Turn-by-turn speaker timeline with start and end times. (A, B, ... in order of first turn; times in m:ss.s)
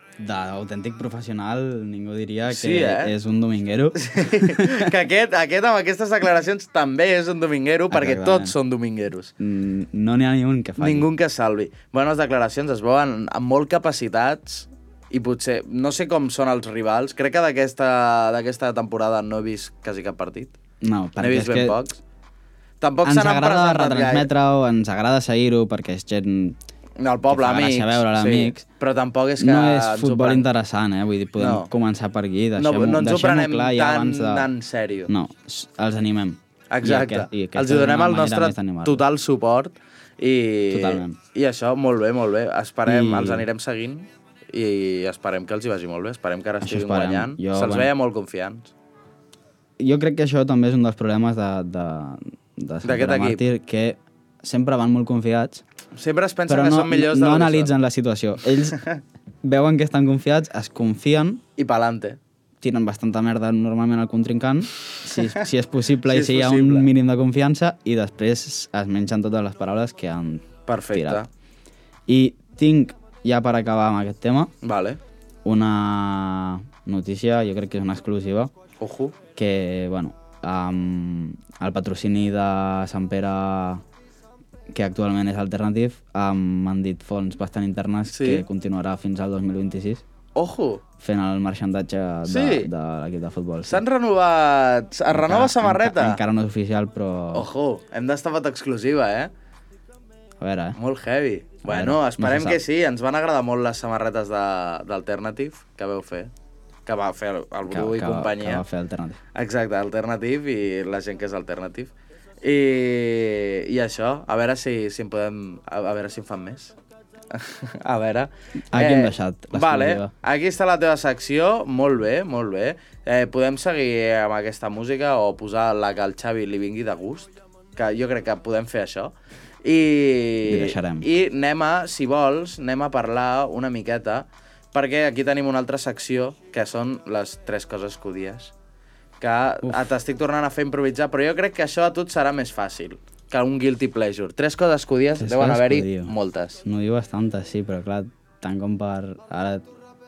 0:00.2-0:04.9 A
0:02.5-0:03.1 B
0:04.0-0:09.3 B
0:07.9-0:08.6 A
0:09.4-0:11.1 A
0:10.8-0:20.5 B
0:20.8-0:21.8 A
0:21.2-0:22.0 B
0:22.8-0:24.3 B
0:23.0-0:26.6 A
0:27.0-0:30.5 B
0:27.3-0:28.6 A
0:29.4-0:34.5 A
0:31.4-0:31.7 B
0:32.6-0:35.1 B
0:35.1-0:39.0 A
0:36.7-0:48.7 B
0:40.7-0:41.2 A
0:42.8-0:43.4 A
0:46.6-0:47.9 A
0:49.8-0:55.6 A
0:52.8-0:53.4 B
0:55.9-0:57.7 B
0:56.5-0:58.8 A
0:59.4-1:01.4 A
1:01.6-1:02.2 B
1:02.6-1:11.2 A
1:06.1-1:06.9 B
1:10.7-1:11.3 B
1:12.1-1:14.5 A
1:14.6-1:15.0 B
1:15.4-1:18.5 A
1:18.8-1:19.1 B
1:19.4-1:23.8 A
1:24.7-1:30.0 A
1:28.1-1:28.4 B
1:30.3-1:30.8 B
1:31.0-1:33.8 A
1:32.3-1:32.7 B
1:33.6-1:36.2 B
1:35.1-1:37.5 A
1:37.3-1:39.3 B
1:40.4-1:40.8 A
1:40.8-1:46.3 B
1:41.6-1:42.6 A
1:46.8-1:48.6 B
1:47.7-1:49.2 A
1:49.3-1:51.9 B
1:52.4-1:56.7 B
1:57.3-2:18.5 B
1:58.7-2:00.1 A
2:10.4-2:11.1 A
2:19.2-2:26.6 B
2:25.2-2:26.1 A
2:26.6-2:29.6 A